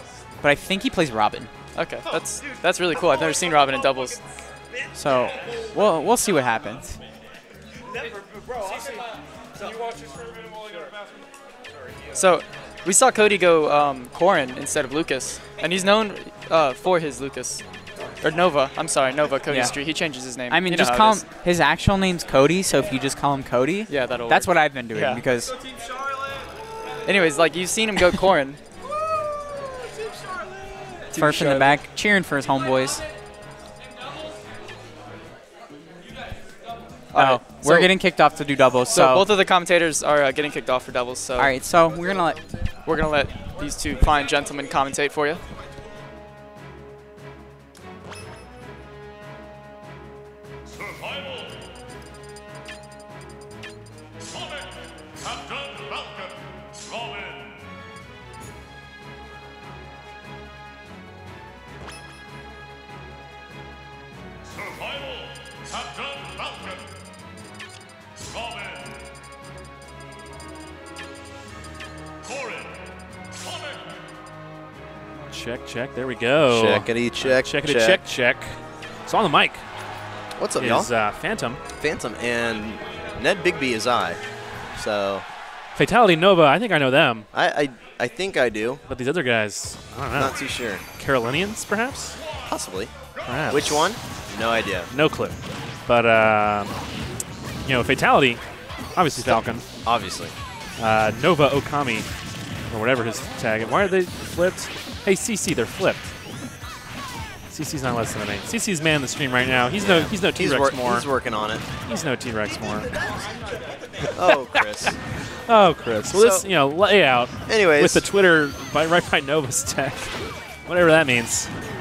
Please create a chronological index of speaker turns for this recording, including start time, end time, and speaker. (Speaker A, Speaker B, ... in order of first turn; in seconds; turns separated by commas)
Speaker A: 0.4-1.5, Speaker B: 1.7-4.2, Speaker A: 4.9-7.0, Speaker B: 12.1-17.6, Speaker B: 18.2-21.2, Speaker A: 19.5-19.7, Speaker A: 20.5-25.5, Speaker B: 23.9-25.2, Speaker B: 27.0-28.6, Speaker B: 31.1-31.8, Speaker A: 31.1-33.0, Speaker B: 37.1-37.9, Speaker A: 37.1-39.2, Speaker B: 38.9-41.5, Speaker A: 41.4-42.4, Speaker B: 42.8-45.4, Speaker C: 75.3-79.6, Speaker D: 76.5-78.0, Speaker D: 80.4-80.9, Speaker C: 80.6-81.6, Speaker D: 81.8-84.2, Speaker D: 84.8-85.2, Speaker C: 85.8-87.2, Speaker D: 87.3-88.8, Speaker C: 88.9-90.3, Speaker D: 90.1-90.8, Speaker C: 91.0-92.2, Speaker D: 92.4-92.9, Speaker C: 93.2-93.9, Speaker D: 93.5-94.9, Speaker C: 94.9-95.3, Speaker C: 95.9-96.7, Speaker C: 97.6-98.4, Speaker C: 99.0-99.6, Speaker D: 99.1-100.3, Speaker C: 100.8-102.1, Speaker C: 102.7-106.1, Speaker C: 107.5-111.1, Speaker D: 109.8-111.6, Speaker C: 111.8-112.9, Speaker D: 114.1-115.0, Speaker C: 114.2-114.9, Speaker C: 115.5-120.2, Speaker D: 116.1-116.5, Speaker D: 117.5-118.0, Speaker C: 120.7-121.5